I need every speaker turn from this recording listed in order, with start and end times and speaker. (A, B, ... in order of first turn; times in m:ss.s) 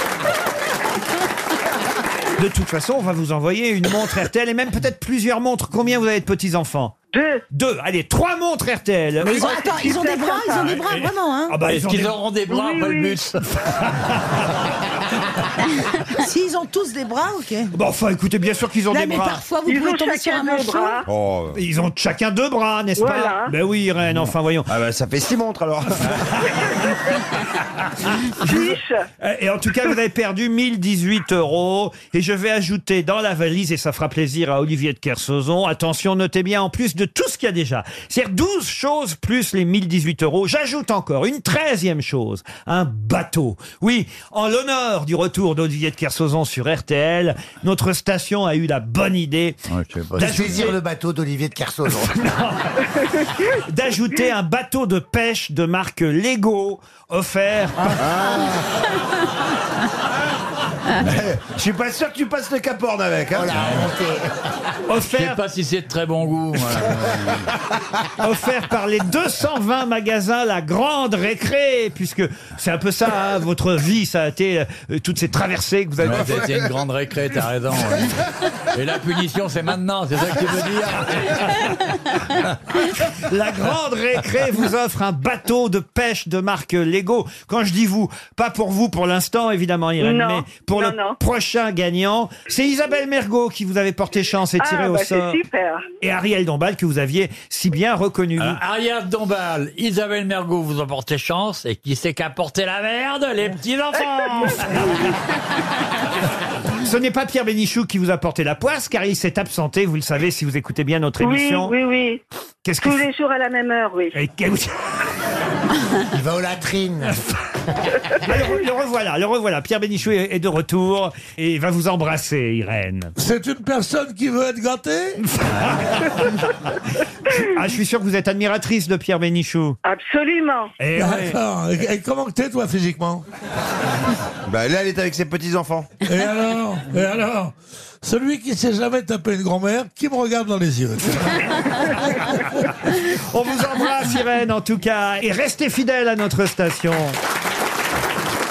0:02.4-0:06.9 A
0:07.1-0:07.4 B
0:07.5-0:09.5 A
0:09.2-0:10.8 B
0:09.2-0:11.6 C
0:10.8-0:11.1 D
0:11.5-0:12.2 A
0:11.7-0:13.4 D
0:12.5-0:13.2 B
0:13.5-0:14.7 A
0:16.0-0:17.7 C
0:17.7-0:19.4 A
0:18.9-0:21.0 C
0:19.6-0:21.1 B
0:21.1-0:21.6 E
0:21.5-0:24.7 A
0:23.0-0:23.5 B
0:24.7-0:26.5 E
0:26.5-0:27.0 A
0:28.0-0:49.6 A
0:28.4-0:29.0 B
0:49.7-0:50.7 D
0:50.2-0:50.8 A
0:50.2-0:52.2 F
0:51.9-0:58.1 A
0:58.0-0:58.7 E
1:01.0-1:03.9 E
1:03.3-1:04.5 F
1:03.5-1:03.9 D
1:04.9-1:05.4 A
1:05.1-1:07.5 D
1:08.1-1:16.4 A
1:16.0-1:22.4 D
1:22.8-1:35.4 A
1:30.0-1:31.2 B
1:34.6-1:35.8 B
1:36.0-1:38.6 A
1:38.4-1:44.6 D
1:44.0-1:45.2 A
1:44.4-1:44.8 B
1:46.8-1:51.8 A
1:51.2-1:52.2 B
1:52.6-1:53.0 A
1:52.8-1:54.2 B
1:54.2-1:55.0 A
1:56.1-1:57.2 F
1:58.2-2:03.1 A
2:03.2-2:05.3 G
2:05.2-2:06.6 A
2:07.3-2:09.8 A
2:09.8-2:10.7 B
2:10.8-2:11.4 A
2:11.0-2:13.2 G
2:14.5-2:15.9 E
2:16.0-2:21.8 G
2:21.8-2:27.2 A